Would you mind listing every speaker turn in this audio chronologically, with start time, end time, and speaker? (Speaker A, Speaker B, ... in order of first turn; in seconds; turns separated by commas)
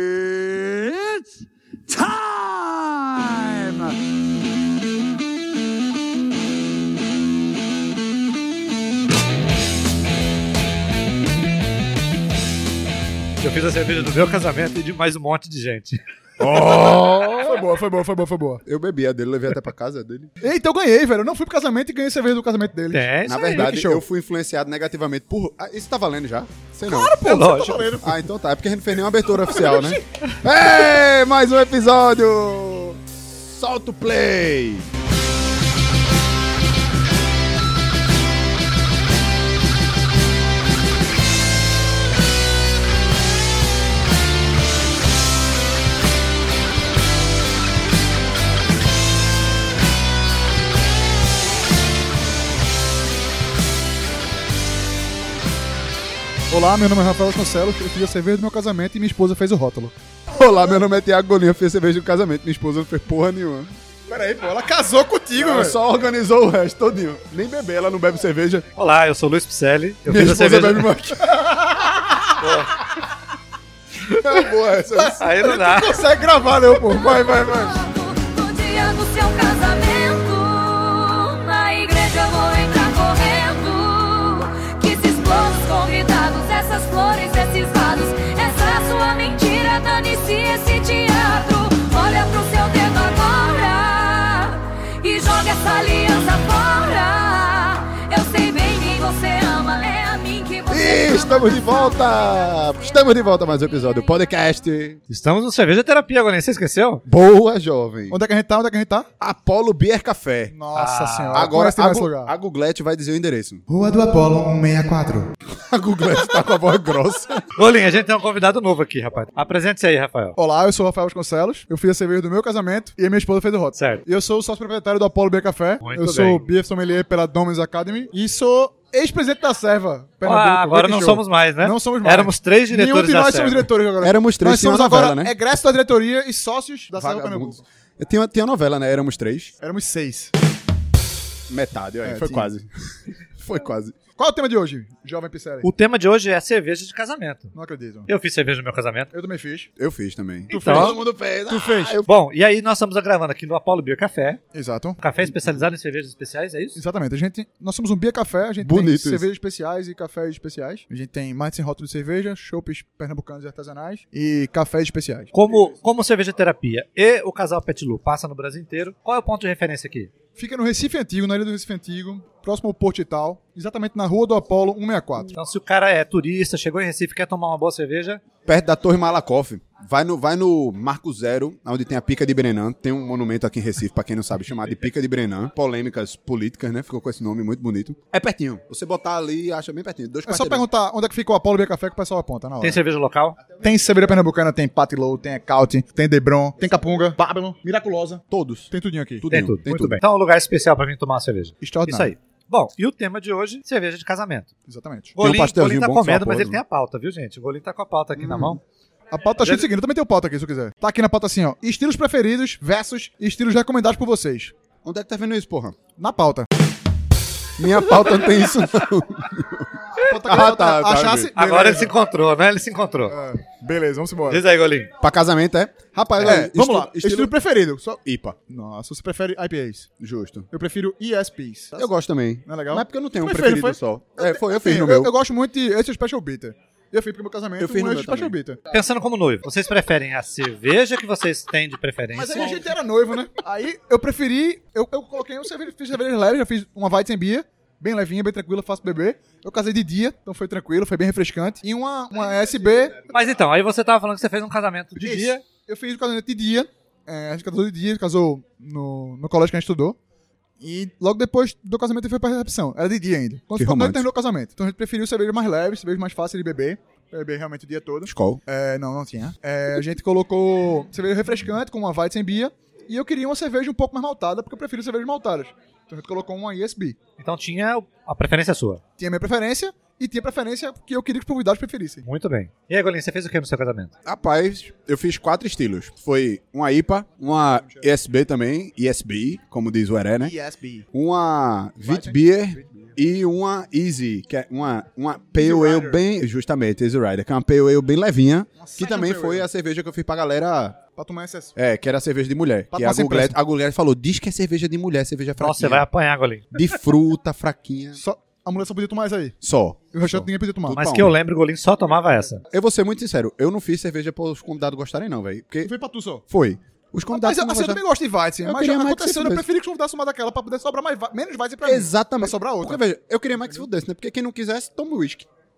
Speaker A: 0.6-1.0, Speaker A: 1.9-3.9, Speaker B: 13.4-16.0, Speaker A: 16.4-17.6, Speaker C: 16.6-18.6, Speaker A: 18.6-20.3, Speaker C: 20.4-24.0, Speaker B: 22.9-23.7, Speaker A: 23.2-27.2, Speaker C: 26.9-28.2, Speaker B: 27.2-28.1, Speaker A: 27.9-34.9, Speaker C: 29.5-29.8, Speaker C: 56.5-60.0, Speaker A: 60.3-63.8, Speaker C: 64.1-65.8, Speaker A: 65.3-68.7, Speaker B: 68.8-70.9, Speaker A: 70.1-71.4, Speaker C: 71.4-72.1, Speaker B: 72.4-72.8, Speaker A: 74.1-75.2, Speaker B: 75.1-76.0, Speaker C: 75.3-77.7, Speaker A: 77.0-77.7, Speaker D: 77.1-102.7, Speaker A: 100.7-105.0, Speaker B: 105.1-107.0, Speaker A: 107.1-108.2, Speaker C: 108.1-109.1, Speaker A: 109.2-110.6, Speaker C: 110.5-112.3, Speaker B: 110.8-111.5, Speaker A: 111.3-113.6, Speaker C: 113.7-115.3, Speaker A: 115.5-117.5, Speaker B: 117.6-120.4, Speaker C: 120.4-137.6, Speaker B: 123.8-124.0, Speaker B: 125.8-126.5, Speaker B: 130.2-133.7, Speaker A: 134.0-135.4, Speaker A: 136.9-139.5, Speaker C: 139.6-140.3, Speaker A: 141.5-144.0, Speaker C: 142.0-142.5, Speaker C: 144.2-145.7, Speaker B: 145.6-147.5, Speaker C: 147.5-148.1, Speaker B: 148.1-149.1, Speaker C: 149.1-149.7, Speaker A: 149.8-152.1, Speaker C: 150.5-151.9, Speaker B: 150.5-151.0, Speaker B: 151.9-154.4, Speaker C: 154.5-155.5, Speaker B: 155.0-156.8, Speaker C: 156.8-165.3, Speaker A: 158.6-159.3, Speaker B: 165.3-170.1, Speaker C: 170.4-175.3, Speaker B: 175.3-178.2, Speaker A: 178.4-190.7, Speaker C: 190.3-192.8, Speaker B: 192.6-193.4, Speaker C: 193.6-199.3, Speaker A: 198.3-200.0, Speaker B: 199.3-204.5, Speaker C: 201.6-202.1, Speaker C: 204.7-205.2, Speaker B: 205.2-208.6, Speaker A: 205.2-206.6, Speaker A: 208.2-208.6, Speaker C: 209.1-214.5, Speaker B: 209.4-209.7, Speaker A: 214.8-215.8, Speaker C: 216.0-216.5, Speaker A: 217.6-221.3, Speaker C: 220.0-221.9, Speaker B: 221.4-223.2, Speaker C: 223.1-224.4, Speaker B: 224.3-224.9, Speaker A: 225.0-227.3, Speaker C: 226.2-229.9, Speaker A: 228.0-228.4, Speaker A: 230.0-230.5, Speaker C: 230.5-231.9, Speaker A: 231.8-235.1, Speaker C: 232.5-238.6, Speaker A: 237.6-238.4, Speaker B: 238.7-242.6, Speaker C: 242.1-253.0, Speaker B: 253.1-255.4, Speaker C: 255.0-260.0, Speaker C: 260.6-277.0, Speaker A: 263.6-264.1, Speaker A: 268.1-268.4, Speaker B: 277.2-278.8, Speaker C: 279.0-282.0, Speaker B: 282.0-283.9, Speaker A: 284.1-290.3, Speaker C: 287.3-287.9, Speaker C: 290.2-290.9, Speaker A: 290.9-300.8, Speaker C: 291.8-293.0, Speaker C: 295.4-296.0, Speaker C: 298.6-299.5, Speaker C: 300.9-301.5, Speaker A: 301.6-305.9, Speaker C: 302.7-303.4, Speaker B: 305.4-306.6, Speaker A: 306.5-308.0, Speaker C: 308.0-309.4, Speaker A: 309.4-311.1, Speaker C: 309.9-310.8, Speaker B: 310.7-312.4, Speaker A: 312.5-315.7, Speaker C: 315.6-316.2, Speaker A: 316.3-317.8, Speaker C: 317.1-322.8, Speaker A: 318.4-319.5, Speaker A: 321.6-325.3